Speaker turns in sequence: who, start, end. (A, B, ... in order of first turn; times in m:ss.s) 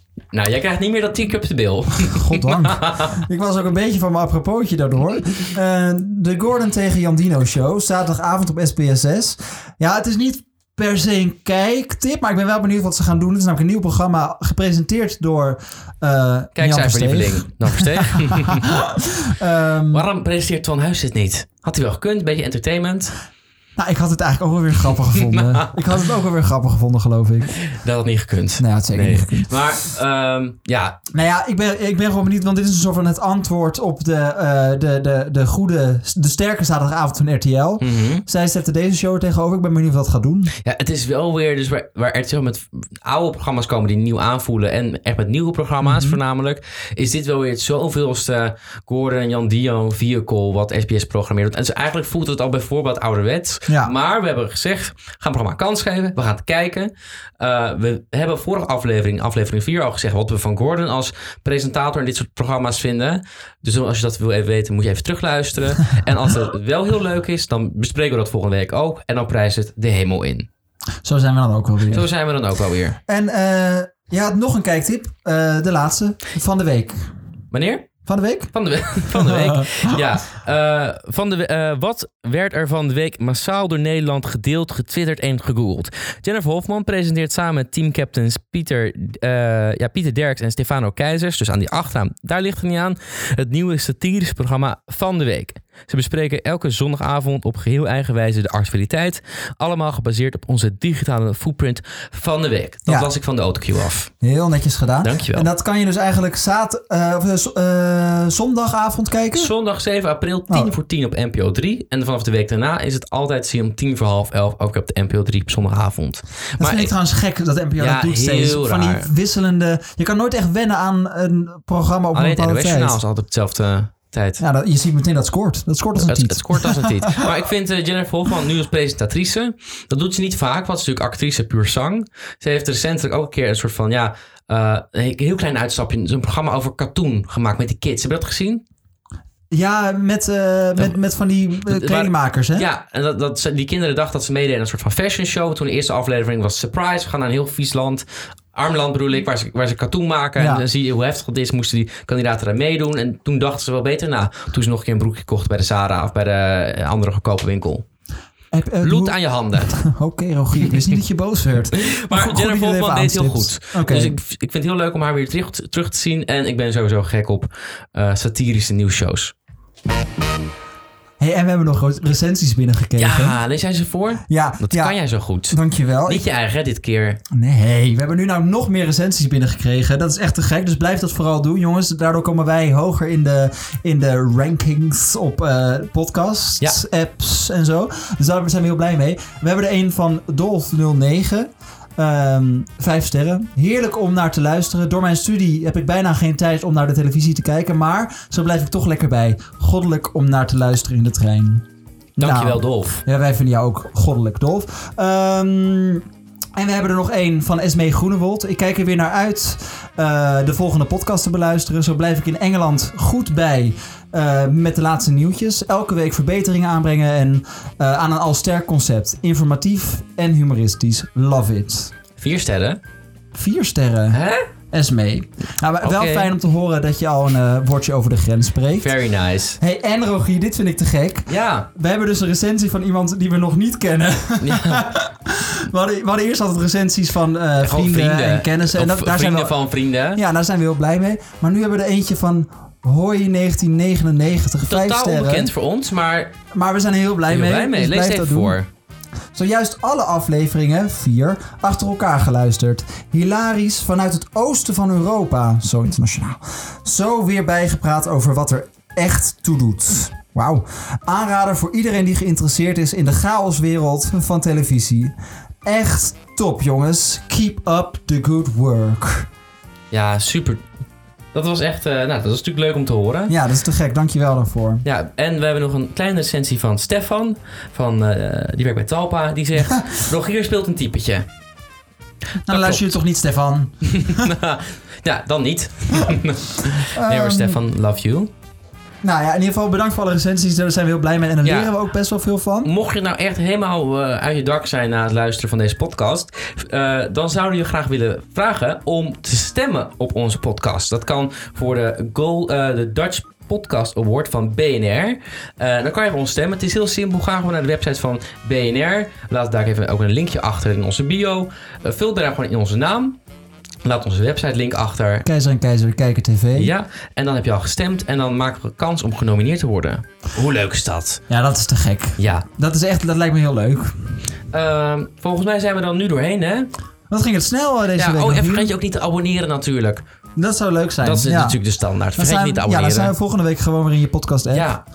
0:00.3-0:03.2 A
0:02.1-0:20.1 B
0:16.6-0:18.7 A
0:19.9-0:23.1 A
0:23.8-0:27.5 B
0:25.2-0:25.7 A
0:27.7-0:31.0 A
0:28.6-0:29.5 B
0:31.1-0:40.5 B
0:37.8-0:38.2 A
0:40.6-1:10.5 A
0:45.8-0:46.2 B
0:53.7-0:53.9 B
1:11.0-1:12.1 B
1:11.9-1:13.0 A
1:13.1-1:17.1 B
1:17.5-1:17.9 A
1:18.0-1:20.0 B
1:18.5-1:44.1 A
1:42.9-1:43.1 B
1:44.2-1:49.5 B
1:45.0-1:45.5 A
1:49.3-1:56.9 A
1:50.5-1:50.7 B
1:56.6-2:03.0 B
1:57.8-1:59.1 A
2:02.1-2:04.4 A
2:04.4-2:07.3 B
2:06.0-2:18.6 A
2:19.5-2:22.7 B
2:21.7-2:37.8 A
2:30.4-2:30.6 B
2:38.5-2:44.1 B
2:38.8-2:39.8 A
2:41.8-2:49.3 A
2:51.2-2:53.4 B
2:53.0-2:57.2 A
2:54.3-2:56.3 B
2:57.3-3:21.6 B
3:22.2-3:23.0 A
3:22.2-3:26.0 B
3:26.6-3:41.9 B
3:42.2-3:42.8 A
3:43.3-3:44.2 B
3:44.1-3:44.4 A
3:44.7-3:48.9 B
3:45.8-3:46.3 A
3:48.8-3:49.6 A
3:49.6-3:59.6 B
3:51.3-3:51.7 A
3:54.4-3:54.8 A
3:57.6-4:00.2 A
4:00.1-4:05.5 B
4:04.6-4:06.3 A
4:06.5-4:08.6 B
4:07.3-4:08.7 A
4:09.3-4:29.3 B
4:29.9-4:30.6 A
4:31.3-4:33.3 A
4:33.3-4:34.8 B
4:34.8-4:41.2 A
4:42.5-4:44.3 B
4:42.5-4:43.0 A
4:43.9-4:48.3 A
4:46.9-4:47.6 B
4:49.0-4:52.7 B
4:51.4-4:51.7 A
4:52.6-5:13.2 A
5:13.8-5:15.2 A
5:15.2-5:16.7 B
5:16.6-5:21.2 A
5:21.3-5:24.2 B
5:22.2-5:22.4 A
5:24.5-5:26.7 A
5:27.1-5:28.7 B
5:28.0-5:30.0 A
5:30.4-5:31.6 B
5:31.0-5:33.1 A
5:32.2-5:34.8 B
5:34.5-5:34.8 A